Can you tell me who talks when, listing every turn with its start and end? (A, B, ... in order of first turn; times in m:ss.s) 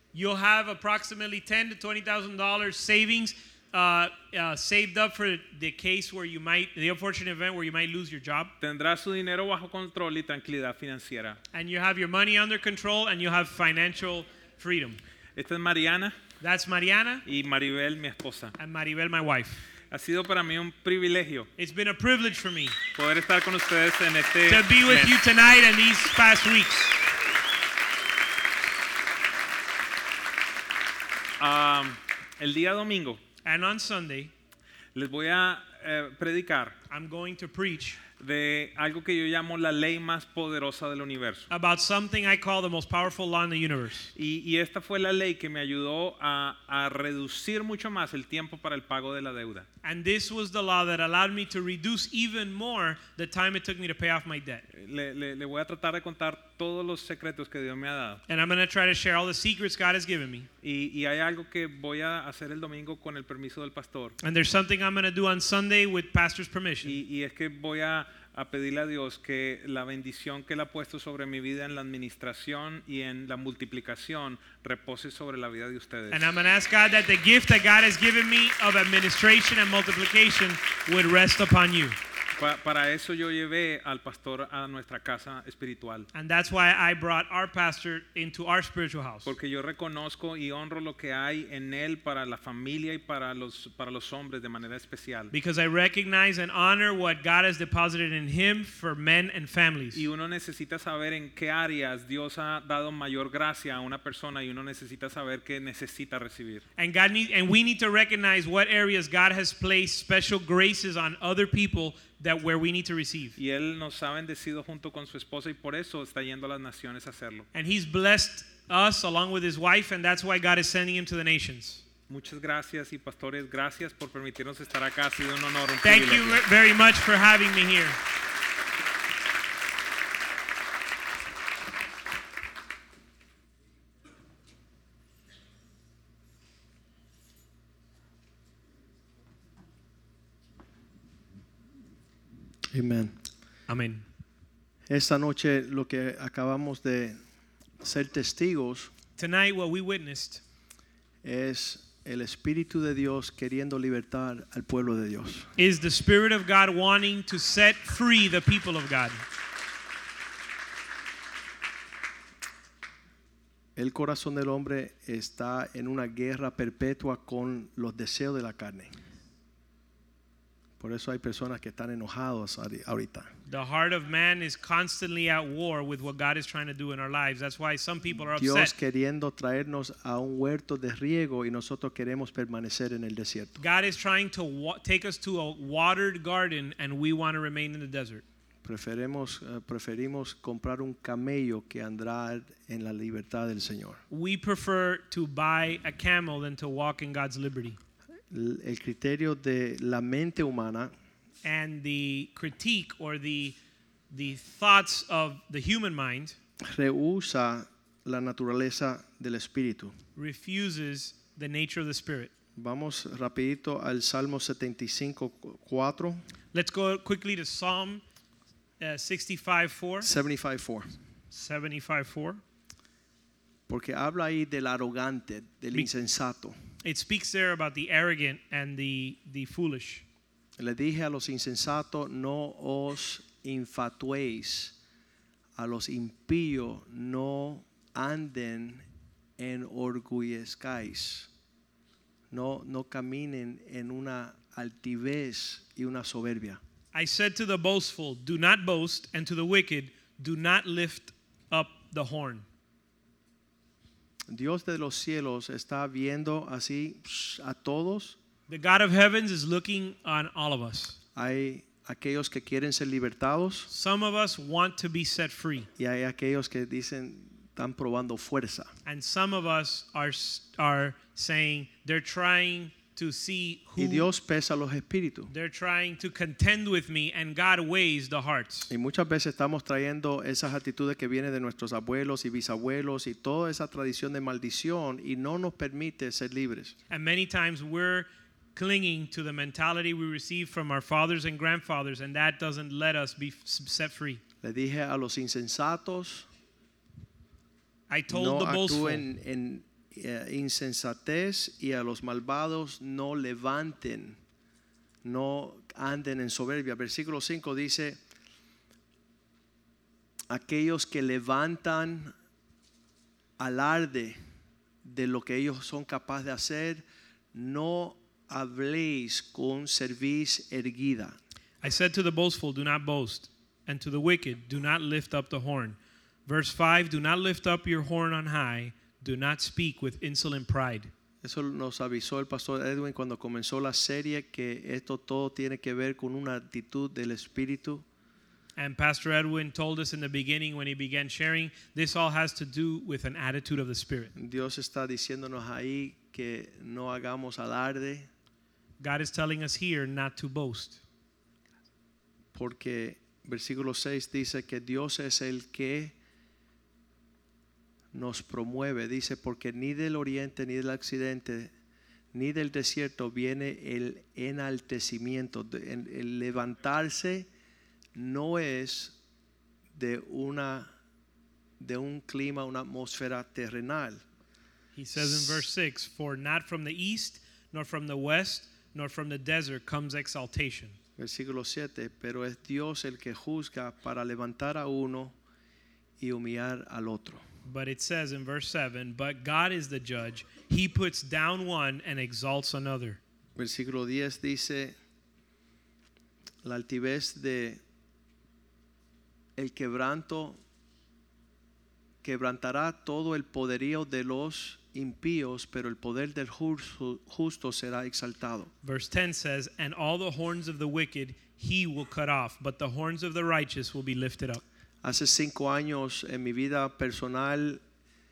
0:00.1-0:08.5 A
0:08.6-0:11.4 B
0:11.5-0:15.0 A
0:15.4-0:16.2 B
0:16.4-0:17.2 A
0:17.2-0:18.6 B
0:18.6-0:19.6 A
0:19.9-0:21.5 B
0:21.6-0:22.8 A
0:23.0-0:25.2 B
0:24.5-0:27.0 A
0:31.4-0:33.2 B
0:33.4-0:34.3 A
0:35.0-0:36.8 B
0:36.9-0:38.0 A
0:38.2-0:41.5 B
0:41.5-0:44.1 A
0:44.2-0:49.7 B
0:49.8-0:54.7 A
0:54.7-0:58.2 B
0:58.3-1:00.5 A
1:00.6-1:04.2 B
1:04.2-1:07.0 A
1:06.8-1:16.3 B
1:16.1-1:22.0 A
1:22.4-1:26.1 B
1:26.1-1:29.3 A
1:29.2-1:35.3 B
1:35.3-1:40.1 A
1:39.9-1:46.6 B
1:46.8-1:53.4 A
1:53.4-1:57.4 B
1:57.5-2:01.8 A
2:02.1-2:06.4 B
2:05.8-2:08.0 A
2:22.7-2:23.2 C
2:23.7-2:24.0 A
2:24.9-2:27.2 C
2:27.8-2:28.9 C
2:29.2-2:30.4 A
2:31.2-2:35.5 C
2:35.6-2:39.2 A
2:43.8-2:48.9 C
2:50.8-2:53.3 C
2:53.5-2:58.7 A
2:58.3-3:03.6 C
3:03.6-3:08.2 A
3:08.6-3:14.0 C
3:14.1-3:17.8 A
3:18.3-3:20.9 C
3:21.4-3:23.6 A
3:24.1-3:26.4 A
3:26.7-3:29.9 C
3:30.2-3:32.3 A
3:32.6-3:36.2 C
3:36.5-3:38.0 A
3:38.8-3:40.1 A
3:40.0-3:40.9 C
3:41.3-3:42.4 A
3:43.7-3:46.6 C
3:46.8-3:50.0 A
3:50.6-3:54.8 C
3:55.6-3:58.8 C
3:59.4-4:01.3 C
4:02.3-4:06.6 C
4:06.9-4:12.4 A
4:14.3-4:18.2 C
4:18.5-4:21.0 A
4:21.2-4:23.7 C
4:23.7-4:25.7 A
4:25.8-4:28.7 C
4:28.9-4:34.1 A
4:33.8-4:35.3 C
4:35.3-4:38.7 A
4:38.7-4:46.7 C
4:46.9-4:54.2 A
4:54.4-4:56.3 C
4:57.9-4:59.0 A
4:58.1-5:04.2 C
5:05.0-5:08.0 C
5:10.3-5:12.1 C
5:13.4-5:14.2 C
5:14.8-5:21.2 C
5:21.6-5:30.9 A
5:31.2-5:37.8 C
5:38.6-5:44.1 A
5:44.2-5:48.1 C
5:48.8-5:50.8 A
5:52.3-5:56.0 C
5:57.9-6:01.5 C
6:02.1-6:07.3 C
6:08.0-6:09.0 C
6:09.7-6:10.7 C
6:11.6-6:14.0 C
6:14.7-6:20.8 A
6:21.0-6:25.1 C
6:26.0-6:27.2 C
6:27.4-6:33.0 A
6:33.4-6:34.8 C
6:36.4-6:37.6 C
6:39.4-6:40.4 C
6:42.0-6:48.5 C
6:48.6-6:54.4 A
6:54.8-6:57.6 C